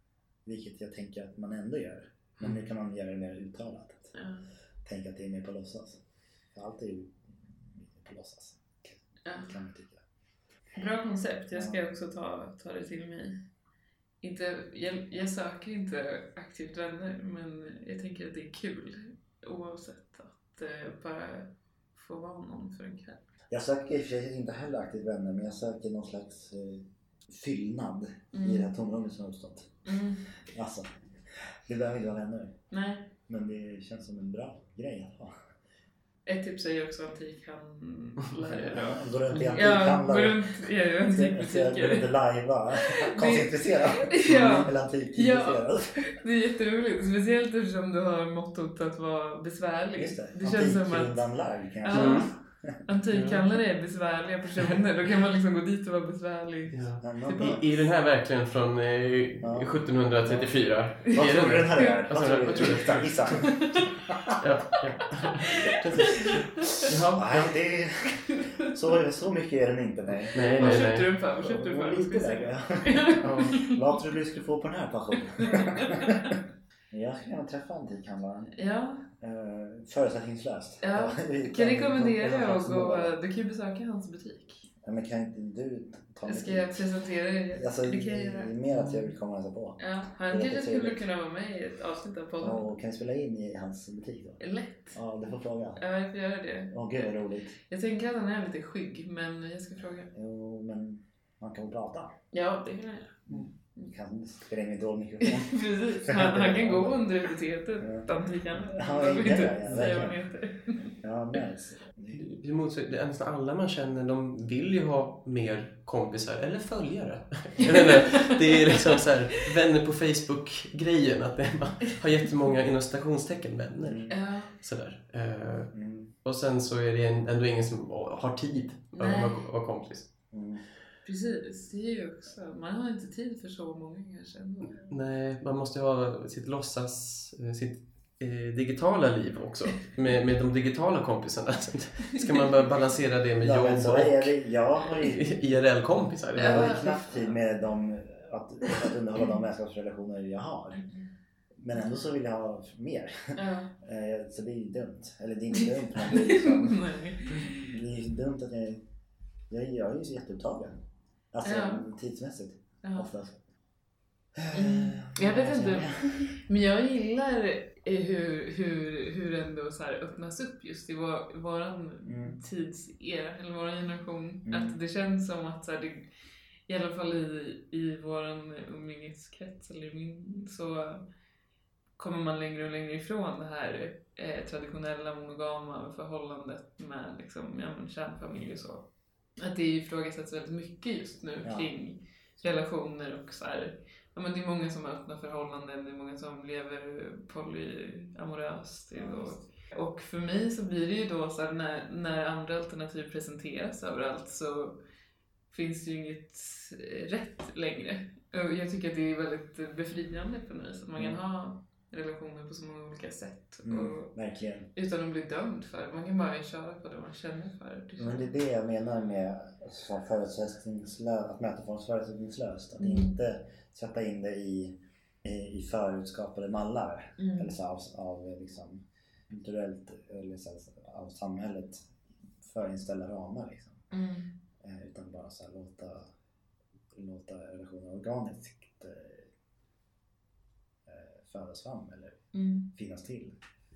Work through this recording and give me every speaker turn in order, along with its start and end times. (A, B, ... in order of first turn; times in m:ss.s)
0:00.4-0:04.1 A
0:04.1-0:04.4 B
0:04.8-0:06.0 A
0:06.5-0:10.0 A
0:09.2-0:09.5 B
0:10.8-0:13.4 B
0:11.5-0:11.8 A
0:14.2-0:23.2 B
0:23.5-0:29.7 A
0:28.3-0:28.7 B
0:29.8-0:30.2 B
0:30.5-0:30.9 A
0:31.7-0:32.6 A
0:32.7-0:33.1 B
0:33.3-0:35.3 A
0:36.3-0:42.1 B
0:38.3-0:38.7 C
0:38.8-0:40.5 A
0:41.1-0:46.0 A
0:42.8-0:51.2 B
0:50.0-0:52.8 A
0:51.8-0:52.3 B
0:51.9-0:52.3 C
0:52.9-0:57.6 B
0:53.1-0:53.4 C
0:56.7-1:03.6 C
0:57.0-0:57.6 A
0:59.4-1:00.5 A
1:01.1-1:04.4 A
1:01.7-1:02.0 B
1:03.3-1:03.9 B
1:04.4-1:07.6 C
1:05.0-1:06.9 B
1:05.8-1:06.4 A
1:07.1-1:16.4 A
1:08.3-1:08.7 B
1:10.3-1:11.1 C
1:10.5-1:13.8 B
1:13.2-1:13.6 C
1:15.4-1:16.3 B
1:16.9-1:18.5 A
1:18.6-1:19.1 B
1:19.2-1:23.1 A
1:20.8-1:24.7 B
1:24.8-1:26.8 A
1:26.3-1:28.5 B
1:27.5-1:31.0 A
1:29.8-1:32.7 B
1:32.4-1:34.4 A
1:34.4-1:35.0 B
1:35.0-1:35.8 A
1:35.8-1:37.1 B
1:36.7-1:37.5 A
1:37.7-1:40.1 B
1:40.1-1:42.1 A
1:42.3-1:43.2 B
1:43.3-1:47.0 A
1:45.2-1:50.9 B
1:47.8-1:48.1 A
1:48.6-1:50.2 A
1:51.0-1:52.2 A
1:52.1-2:10.1 C
1:57.6-1:59.0 B
2:03.8-2:04.2 A
2:04.1-2:04.5 B
2:05.7-2:06.1 A
2:09.0-2:09.4 B
2:10.3-2:10.6 A
2:11.0-2:15.0 B
2:14.8-2:24.3 C
2:22.1-2:22.5 B
2:23.4-2:25.5 A
2:25.0-2:26.8 C
2:26.4-2:30.8 A
2:26.4-2:27.4 B
2:31.6-2:36.8 A
2:33.4-2:33.7 B
2:35.6-2:37.6 B
2:37.4-2:38.8 A
2:39.5-2:40.8 A
2:41.3-2:43.4 A
2:41.4-2:41.9 B
2:42.8-2:43.1 B
2:44.4-2:46.4 A
2:44.5-2:56.1 B
2:52.0-2:52.4 A
2:54.4-2:54.8 A
2:56.7-3:01.0 B
3:02.0-3:24.8 B
3:11.4-3:11.7 A
3:19.0-3:19.3 A
3:25.5-3:34.1 B
3:33.6-3:34.7 A
3:34.8-3:38.3 B
3:38.0-3:51.9 A
3:42.8-3:43.2 B
3:47.2-3:47.5 B
3:52.4-3:53.8 A
3:53.9-3:54.4 B
3:54.6-3:56.1 A
3:56.9-3:59.3 A
4:00.9-4:02.2 A
4:02.3-4:02.7 B
4:02.7-4:03.4 A